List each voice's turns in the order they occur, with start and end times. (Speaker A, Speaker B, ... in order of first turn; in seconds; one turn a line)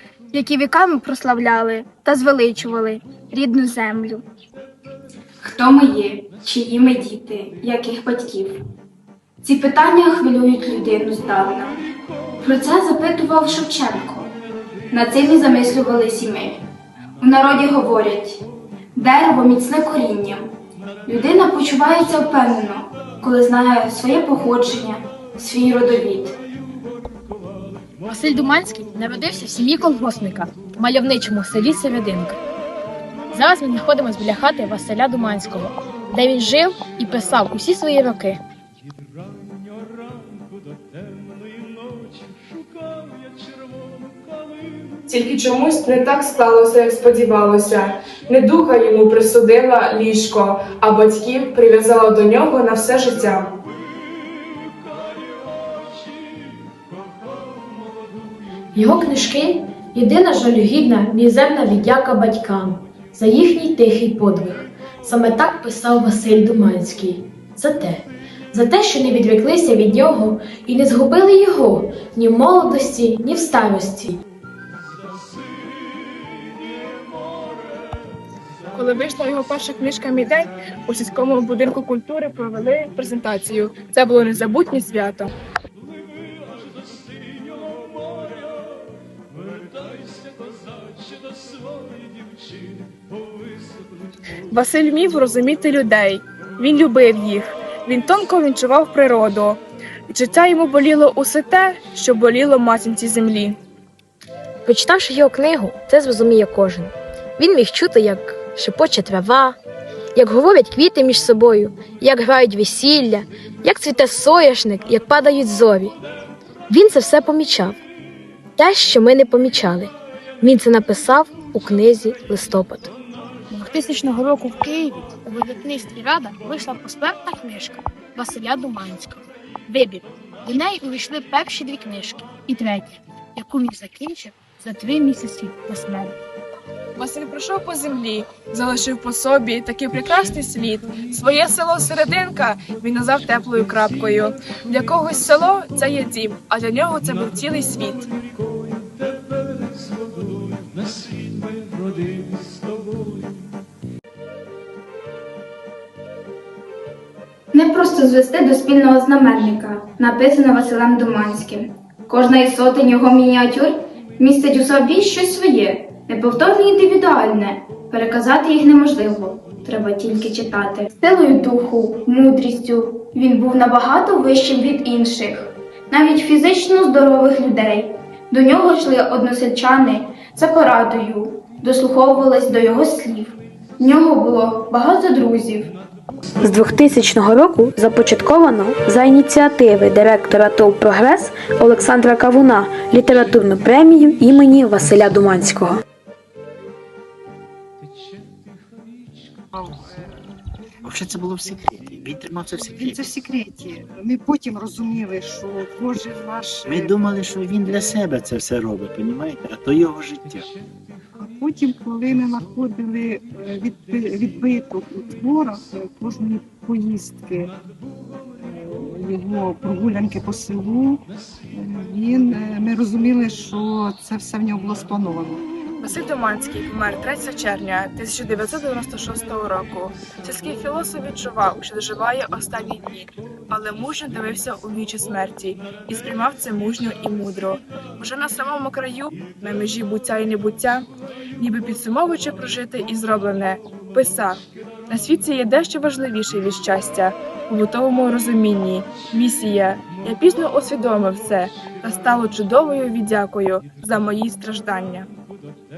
Speaker A: 0.3-4.2
Speaker A: 5.4-8.6
Speaker A: 9.4-11.8
Speaker A: 12.4-14.4
Speaker A: 14.9-16.7
Speaker A: 17.2-20.5
Speaker A: 21.1-26.4
Speaker B: 28.1-32.4
Speaker B: 33.3-38.4
Speaker C: 45.1-53.5
Speaker B: 58.7-74.2
Speaker C: 78.7-85.3
Speaker C: 94.5-103.6
Speaker B: 104.7-109.6
Speaker B: 110.1-115.9
Speaker B: 116.7-117.8
Speaker B: 118.6-122.9
Speaker B: 123.5-136.1
Speaker C: 137.0-148.1
Speaker A: 157.5-185.7
Speaker D: 186.4-195.8
Speaker E: 199.5-200.1
Speaker F: 200.8-203.1
Speaker E: 202.8-206.9
Speaker F: 206.6-210.4
Speaker E: 211.2-217.5
Speaker E: 218.4-221.0
Speaker E: 221.5-225.4
Speaker C: 225.8-240.8
Speaker C: 241.4-255.1